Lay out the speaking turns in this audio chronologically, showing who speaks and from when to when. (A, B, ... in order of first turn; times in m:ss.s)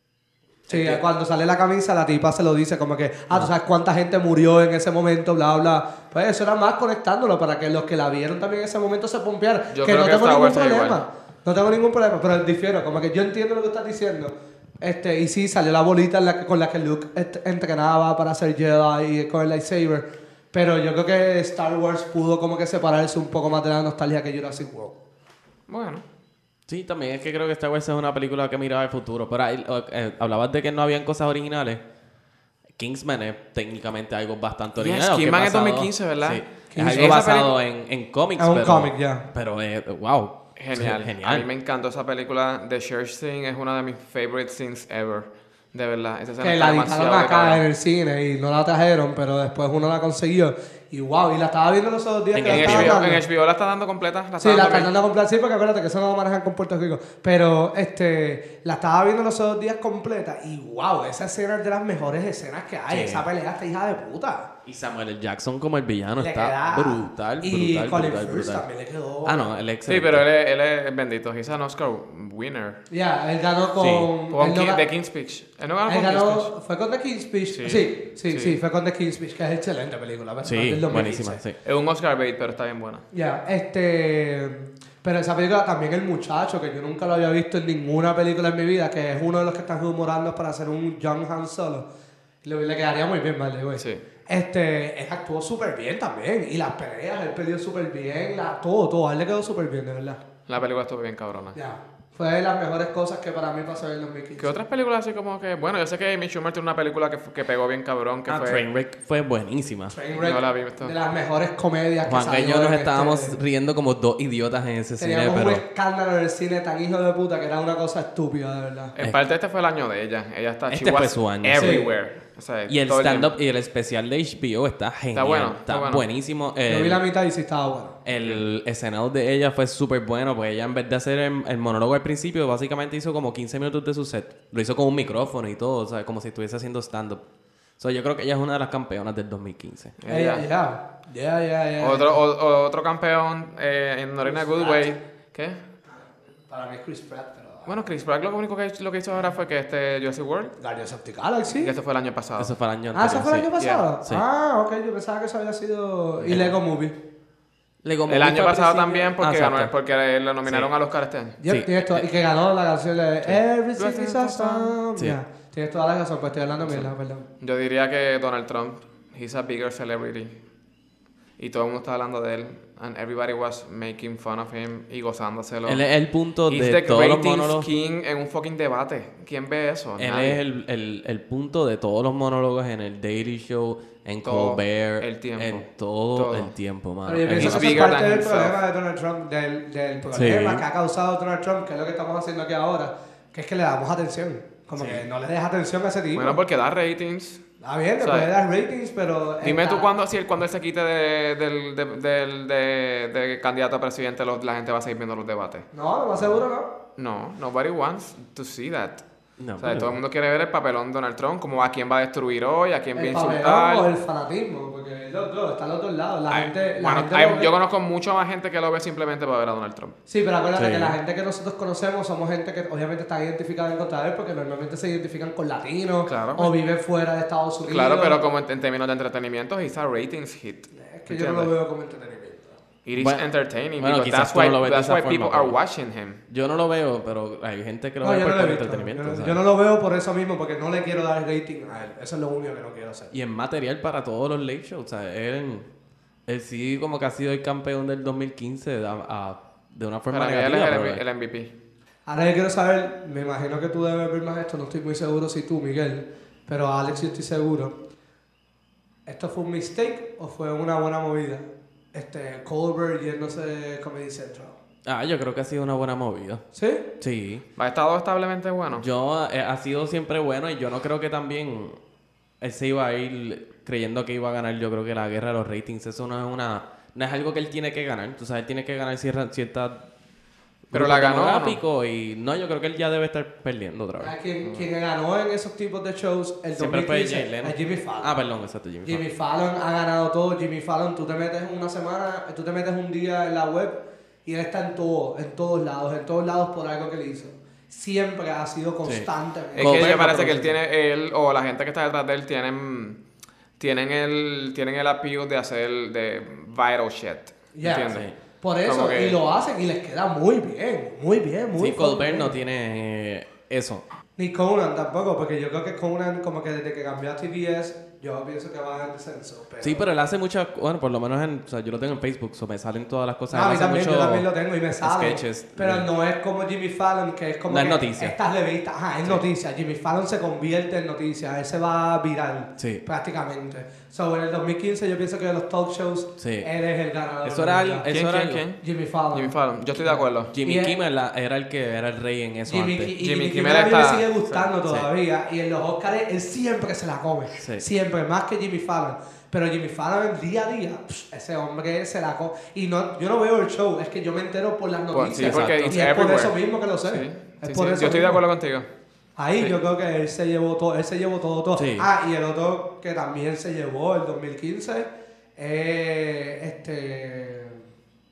0:00.7-0:01.0 A
0:00.7-0:25.0 B
0:09.7-0:11.0 C
0:25.7-0:26.0 C
0:26.7-0:31.8 A
0:32.8-0:41.5 A
0:34.8-0:37.5 C
0:36.7-0:37.3 B
0:38.4-0:39.2 B
0:40.6-0:47.6 C
0:46.4-0:53.2 B
0:52.3-0:53.0 A
0:52.4-0:54.9 C
0:54.4-1:04.5 B
1:02.9-1:03.2 A
1:04.6-1:08.6 A
1:06.2-1:09.5 B
1:09.2-1:10.2 A
1:09.9-1:12.8 C
1:12.9-1:14.8 B
1:13.8-1:14.1 A
1:14.3-1:16.5 C
1:15.9-1:21.4 B
1:17.5-1:18.6 C
1:20.4-1:21.6 A
1:21.6-1:23.0 C
1:23.1-1:31.9 B
1:32.4-1:40.2 B
1:40.5-1:41.6 C
1:41.5-1:44.5 B
1:44.4-1:48.6 C
1:48.3-1:50.0 A
1:49.9-1:53.4 B
1:50.1-1:50.9 C
1:52.1-1:55.6 A
1:55.0-1:58.9 B
1:58.9-2:03.3 C
2:00.7-2:01.8 A
2:01.6-2:01.9 B
2:02.7-2:07.0 A
2:05.1-2:06.1 C
2:06.7-2:08.0 B
2:08.0-2:17.2 A
2:17.8-2:20.0 A
2:20.0-2:20.4 C
2:20.1-2:22.2 B
2:21.8-2:25.6 C
2:24.2-2:25.0 B
2:25.9-2:27.9 B
2:27.6-2:30.5 C
2:30.6-2:31.7 B
2:31.5-2:32.5 C
2:32.4-2:33.5 A
2:32.9-2:37.0 B
2:33.6-2:33.8 C
2:36.2-2:36.5 A
2:37.8-2:39.7 A
2:38.1-2:41.4 C
2:41.4-2:47.3 B
2:41.5-2:42.0 A
2:43.8-2:44.7 C
2:46.7-2:50.4 C
2:51.4-2:55.8 C
2:55.6-2:57.7 A
2:56.5-3:00.4 C
3:00.0-3:07.9 A
3:04.2-3:06.5 C
3:07.1-3:16.4 B
3:07.3-3:08.6 C
3:10.1-3:10.6 A
3:14.8-3:15.0 A
3:16.1-3:17.4 C
3:17.6-3:19.9 B
3:18.0-3:18.3 C
3:19.4-3:25.7 C
3:25.7-3:26.7 B
3:27.0-3:29.0 C
3:29.4-3:30.0 A
3:29.6-3:33.9 C
3:32.9-3:37.5 B
3:36.3-3:40.0 C
3:40.1-3:48.2 B
3:40.5-3:41.0 A
3:46.0-3:46.5 C
3:47.7-3:51.5 C
3:50.7-3:52.6 B
3:52.8-3:56.2 C
3:53.0-3:55.6 A
3:56.3-3:59.4 A
3:58.0-4:03.1 B
4:03.1-4:05.7 A
4:06.3-4:11.0 A
4:10.1-4:11.5 C
4:12.1-4:17.7 B
4:19.0-4:24.6 B
4:24.8-4:26.4 A
4:26.5-4:26.8 B
4:27.0-4:27.4 A
4:27.6-4:28.8 C
4:28.7-4:31.8 A
4:32.4-4:39.8 A
4:40.7-4:44.1 A
4:40.7-4:41.6 C
4:44.0-4:48.2 B
4:46.6-4:49.0 A
4:48.8-5:00.2 B
4:58.8-5:00.5 A
4:59.5-5:03.0 C
5:03.6-5:08.1 C
5:07.5-5:12.3 B
5:07.7-5:08.2 A
5:08.6-5:09.2 C
5:11.6-5:13.8 A
5:14.2-5:19.8 B
5:19.6-5:24.3 A
5:23.3-5:37.9 B
5:24.8-5:25.9 A
5:27.5-5:28.1 A
5:32.6-5:32.8 A
5:36.2-5:36.5 A
5:37.2-5:38.4 A
5:37.9-5:40.3 C
5:38.6-5:40.8 B
5:40.3-5:42.9 A
5:42.5-5:58.2 B
5:43.0-5:44.5 C
5:47.4-5:47.6 A
5:54.9-5:58.7 C
5:55.2-5:55.8 A
5:59.2-6:07.6 B
6:01.6-6:01.9 A